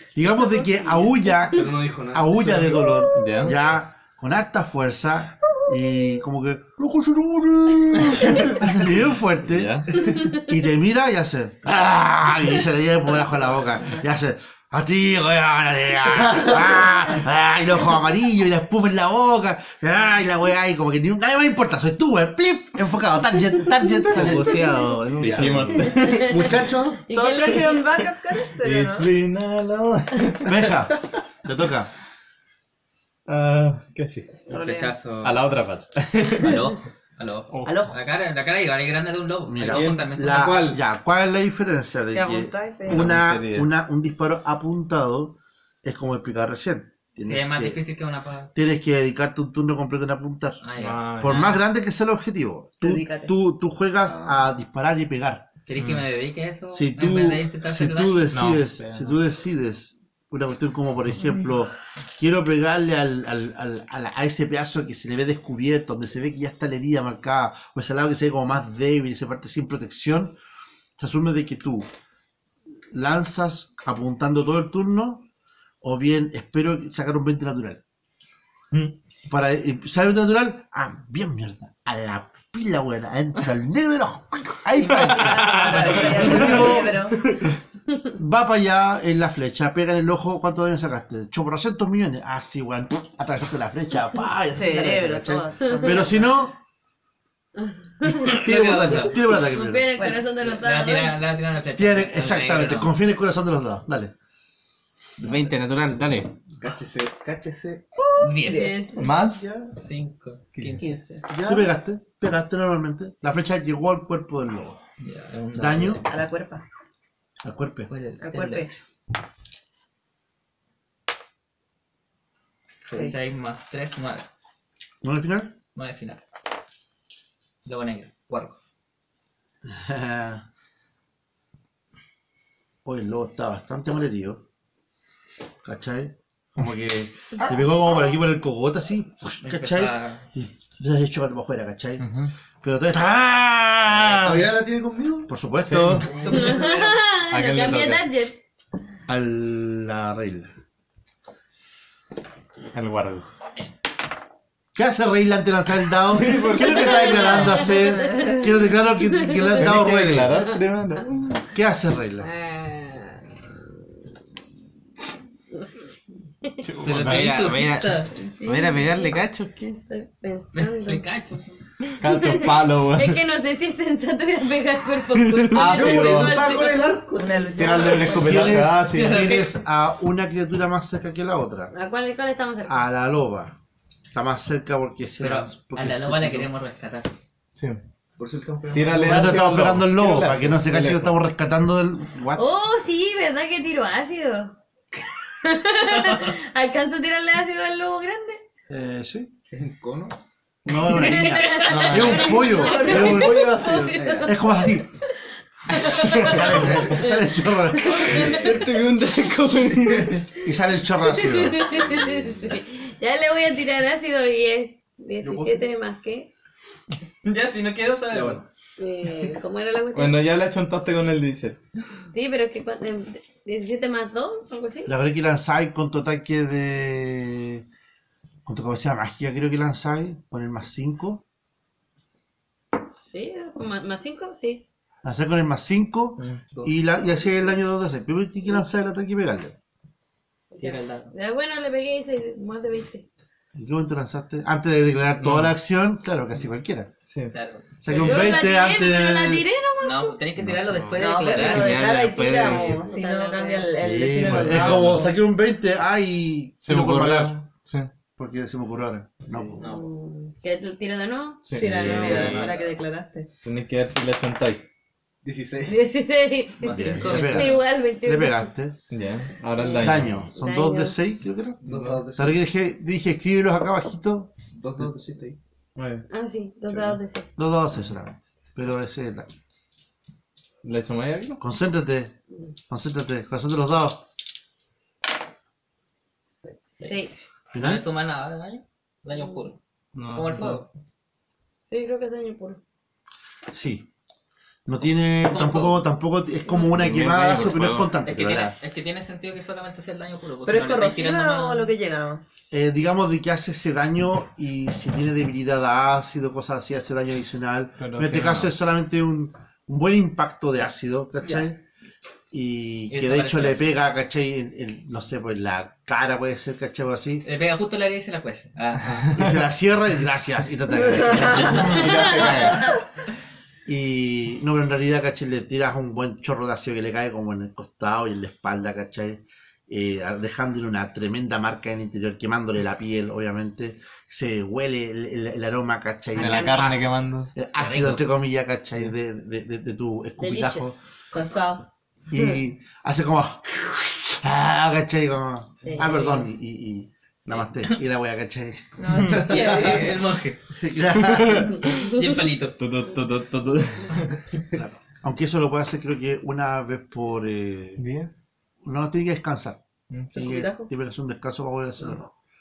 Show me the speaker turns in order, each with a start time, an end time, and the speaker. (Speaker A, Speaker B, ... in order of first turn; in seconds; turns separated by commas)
Speaker A: 0.1-24.7, Speaker B: 1.4-3.1, Speaker C: 3.1-3.6, Speaker C: 8.0-8.6, Speaker C: 9.4-10.1, Speaker D: 24.1-25.8, Speaker C: 25.2-26.5, Speaker B: 25.8-27.0, Speaker E: 26.0-26.3, Speaker E: 27.1-27.9, Speaker F: 27.1-29.1, Speaker C: 28.6-30.8, Speaker A: 30.4-31.9, Speaker C: 33.3-34.4, Speaker F: 34.5-34.9, Speaker G: 34.5-35.5, Speaker C: 35.2-36.6, Speaker G: 36.4-40.6, Speaker C: 37.5-37.8, Speaker F: 37.6-38.0, Speaker A: 39.5-47.8, Speaker B: 39.6-40.8, Speaker F: 42.1-43.1, Speaker C: 42.9-43.7, Speaker G: 47.2-48.5, Speaker A: 48.5-50.6, Speaker G: 50.6-51.6, Speaker C: 50.8-51.6, Speaker A: 51.2-55.5, Speaker F: 52.8-53.3, Speaker B: 54.0-54.4, Speaker G: 55.7-58.3, Speaker C: 55.8-56.0, Speaker A: 56.7-70.3, Speaker C: 58.3-58.7, Speaker A: 71.0-71.9, Speaker A: 72.9-75.3, Speaker A: 75.8-77.8, Speaker A: 79.3-87.0, Speaker F: 84.8-87.4, Speaker C: 85.7-86.7, Speaker A: 88.2-96.6, Speaker F: 94.5-96.2, Speaker E: 97.6-98.4, Speaker A: 98.2-99.9, Speaker G: 98.3-99.2, Speaker E: 99.2-101.2, Speaker F: 100.0-100.3, Speaker G: 100.5-102.9, Speaker A: 101.8-104.1, Speaker D: 105.2-106.3, Speaker B: 106.5-108.2, Speaker F: 108.1-109.0, Speaker G: 108.2-108.9, Speaker E: 108.4-109.0, Speaker C: 109.0-109.5, Speaker B: 109.0-109.8, Speaker G: 109.8-110.9, Speaker C: 110.6-110.9, Speaker F: 110.8-111.3, Speaker B: 111.3-111.7, Speaker A: 111.4-114.8, Speaker G: 115.0-116.2, Speaker A: 115.5-116.0, Speaker F: 116.1-116.6, Speaker A: 117.4-117.9, Speaker G: 117.9-118.7, Speaker F: 118.2-118.8, Speaker F: 122.9-123.2, Speaker G: 122.9-124.3, Speaker A: 125.0-125.5, Speaker G: 125.8-126.2, Speaker G: 127.7-128.6, Speaker A: 129.7-130.4, Speaker A: 132.8-134.4, Speaker A: 135.6-142.0, Speaker G: 139.4-140.2, Speaker G: 142.0-142.3, Speaker A: 142.6-144.5, Speaker B: 144.1-145.3, Speaker A: 145.3-146.1, Speaker C: 145.6-146.1, Speaker B: 146.1-146.9, Speaker F: 146.2-146.8, Speaker E: 146.3-148.4, Speaker C: 147.2-148.1, Speaker A: 149.1-150.5, Speaker C: 152.7-153.3, Speaker A: 154.8-160.4, Speaker C: 156.1-157.8, Speaker E: 156.8-158.4, Speaker F: 157.8-158.5, Speaker E: 159.1-159.6, Speaker C: 159.5-161.4, Speaker A: 161.5-162.3, Speaker E: 162.2-163.2, Speaker E: 165.5-166.7, Speaker C: 166.6-167.4, Speaker G: 166.8-168.1, Speaker D: 167.0-169.8, Speaker E: 168.2-171.1, Speaker G: 170.5-171.6, Speaker C: 172.0-173.2, Speaker E: 172.0-177.0, Speaker C: 175.2-176.6, Speaker B: 175.6-178.0, Speaker F: 177.2-178.7, Speaker C: 177.5-179.3, Speaker A: 178.1-181.7, Speaker G: 178.9-179.5, Speaker E: 181.7-182.9, Speaker A: 182.7-183.6, Speaker A: 184.1-186.5, Speaker G: 185.2-187.1, Speaker B: 188.2-189.5, Speaker C: 188.7-191.2, Speaker A: 189.0-192.4, Speaker E: 192.3-194.6, Speaker E: 195.4-198.4, Speaker A: 198.7-199.3, Speaker B: 199.5-200.2, Speaker A: 200.7-203.5, Speaker E: 200.8-204.8, Speaker C: 201.5-204.2, Speaker B: 203.2-204.4, Speaker A: 204.2-204.9, Speaker E: 205.7-207.1, Speaker A: 206.0-208.4, Speaker C: 206.0-206.8, Speaker E: 208.0-208.3, Speaker B: 208.1-208.7, Speaker D: 208.2-210.2, Speaker B: 209.9-210.2, Speaker A: 210.4-212.0, Speaker E: 211.1-216.3, Speaker B: 215.2-215.7, Speaker G: 217.3-218.4, Speaker B: 218.1-218.4, Speaker E: 218.8-220.3, Speaker C: 219.9-221.6, Speaker E: 222.1-224.9, Speaker A: 224.9-227.7, Speaker A: 228.4-231.2, Speaker E: 233.1-234.6, Speaker A: 235.0-239.6, Speaker B: 236.5-237.6, Speaker E: 240.5-243.1, Speaker G: 240.6-241.1, Speaker A: 243.6-246.9, Speaker C: 245.2-245.5, Speaker C: 247.1-247.3, Speaker G: 247.3-248.3, Speaker A: 247.8-249.5, Speaker E: 247.9-250.2, Speaker G: 249.8-251.8, Speaker C: 250.4-251.5, Speaker F: 251.0-255.2, Speaker D: 251.3-252.9, Speaker E: 252.9-253.8, Speaker A: 253.8-257.4, Speaker C: 254.2-255.1, Speaker C: 256.6-257.9, Speaker A: 258.2-259.6, Speaker G: 259.6-259.9, Speaker E: 259.6-261.4, Speaker C: 261.4-262.6, Speaker F: 261.5-263.3, Speaker B: 261.8-262.4, Speaker G: 261.8-262.7, Speaker C: 263.4-264.6, Speaker B: 265.2-265.8, Speaker E: 265.7-268.5, Speaker G: 266.6-267.7, Speaker A: 266.7-268.8, Speaker C: 268.9-270.2, Speaker A: 269.8-274.3, Speaker E: 270.4-271.0, Speaker B: 271.6-272.4, Speaker C: 271.7-272.0, Speaker B: 274.5-275.4, Speaker C: 275.8-276.1, Speaker E: 276.1-277.3, Speaker A: 277.4-279.3, Speaker C: 280.6-281.4, Speaker A: 281.4-282.1, Speaker A: 282.7-284.0, Speaker E: 286.8-287.1, Speaker A: 287.5-287.8, Speaker G: 287.6-289.6, Speaker C: 289.9-290.6, Speaker G: 290.1-290.7, Speaker E: 291.7-292.6, Speaker A: 293.5-293.9, Speaker A: 294.7-298.6, Speaker G: 295.2-295.9, Speaker D: 296.7-297.8, Speaker C: 296.8-297.8, Speaker G: 298.0-301.7, Speaker F: 300.5-302.2, Speaker A: 302.5-311.6, Speaker C: 307.8-308.5, Speaker F: 311.2-311.5, Speaker A: 312.3-317.3, Speaker G: 312.9-313.8, Speaker G: 317.2-319.1, Speaker A: 319.1-322.5, Speaker F: 320.7-322.6, Speaker C: 321.6-322.0, Speaker B: 321.9-322.2, Speaker A: 323.7-340.8, Speaker C: 336.2-337.4, Speaker E: 336.2-336.6, Speaker G: 337.6-338.1, Speaker E: 340.2-340.8, Speaker F: 341.1-341.6, Speaker A: 342.1-348.9, Speaker G: 345.7-346.1, Speaker F: 348.8-349.9, Speaker C: 348.9-349.3, Speaker B: 349.1-349.7, Speaker G: 349.1-350.4, Speaker A: 350.6-351.6, Speaker C: 350.9-354.2, Speaker G: 351.8-352.6, Speaker A: 354.5-357.8, Speaker C: 357.8-358.1, Speaker A: 358.6-359.6, Speaker F: 360.1-360.7, Speaker A: 360.1-362.1